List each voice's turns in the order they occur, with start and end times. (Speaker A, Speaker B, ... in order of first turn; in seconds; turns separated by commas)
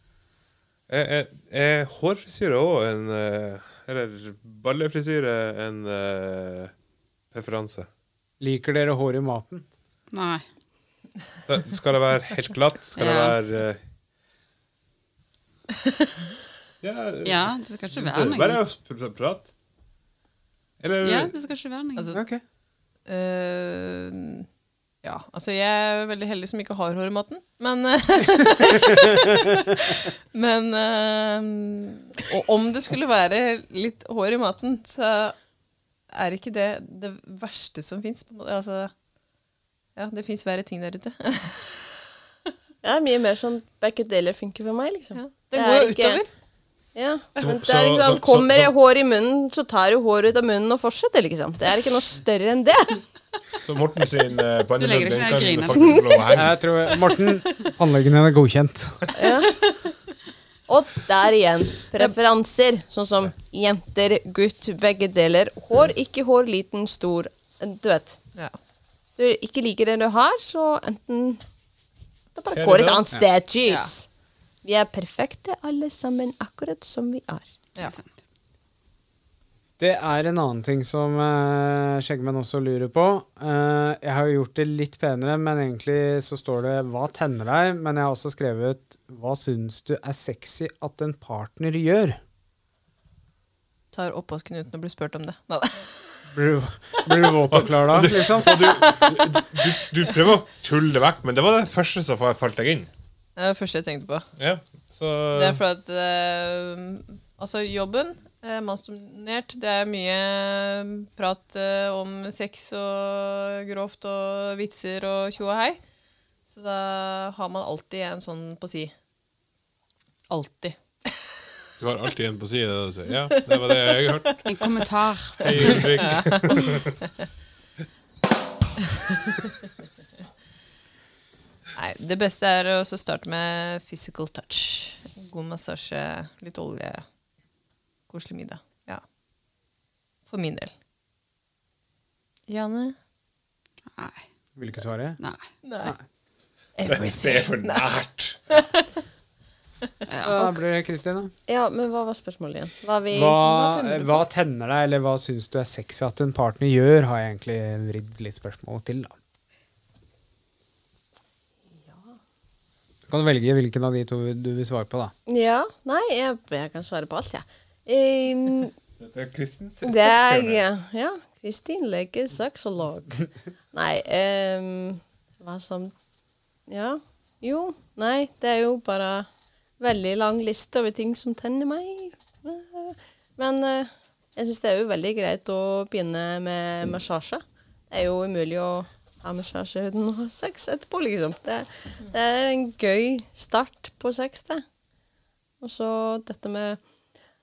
Speaker A: 0.9-6.7, Speaker A: 7.3-7.9, Speaker B: 8.4-9.7, Speaker C: 10.1-10.4, Speaker A: 11.5-13.8, Speaker C: 13.0-13.4, Speaker D: 15.8-16.1, Speaker A: 16.8-19.5, Speaker C: 17.2-18.6, Speaker A: 20.8-21.3, Speaker C: 21.0-22.1, Speaker D: 21.9-22.2, Speaker B: 22.1-22.4, Speaker D: 23.1-24.5, Speaker D: 25.0-35.3, Speaker D: 36.1-38.9, Speaker D: 40.0-41.9, Speaker E: 42.8-46.2, Speaker D: 45.1-46.3, Speaker E: 46.9-53.0, Speaker A: 47.4-48.7, Speaker A: 53.6-56.6, Speaker C: 54.8-56.2, Speaker B: 56.3-59.0, Speaker E: 59.1-59.6, Speaker E: 60.7-68.2, Speaker E: 69.2-71.4, Speaker E: 72.3-74.1, Speaker A: 72.5-73.0, Speaker D: 73.6-73.9, Speaker E: 74.6-77.5, Speaker C: 77.8-78.1, Speaker B: 79.8-92.2, Speaker D: 93.9-96.0, Speaker B: 96.3-98.7, Speaker A: 97.5-102.9, Speaker D: 103.3-104.3, Speaker A: 104.4-105.6, Speaker D: 105.3-115.8, Speaker D: 116.5-118.9, Speaker D: 120.3-121.1, Speaker A: 121.8-124.4, Speaker D: 123.3-124.4, Speaker C: 124.5-126.0, Speaker A: 125.4-126.9, Speaker D: 125.4-126.6, Speaker D: 129.1-129.4, Speaker D: 131.8-137.1, Speaker D: 138.1-139.0, Speaker D: 140.3-140.7, Speaker D: 142.5-142.9, Speaker C: 143.9-144.2, Speaker B: 144.6-145.2, Speaker C: 145.2-145.5, Speaker D: 145.6-145.9, Speaker D: 146.8-147.8, Speaker A: 146.8-148.6, Speaker D: 148.5-148.9, Speaker C: 150.1-150.6, Speaker B: 150.2-151.3, Speaker E: 151.5-153.7, Speaker B: 153.1-159.1, Speaker D: 153.6-154.1, Speaker E: 161.8-162.1, Speaker B: 163.1-165.1, Speaker E: 165.3-168.7, Speaker A: 169.0-170.6, Speaker E: 169.8-175.9, Speaker E: 176.7-179.3, Speaker E: 179.8-194.6, Speaker E: 195.6-196.8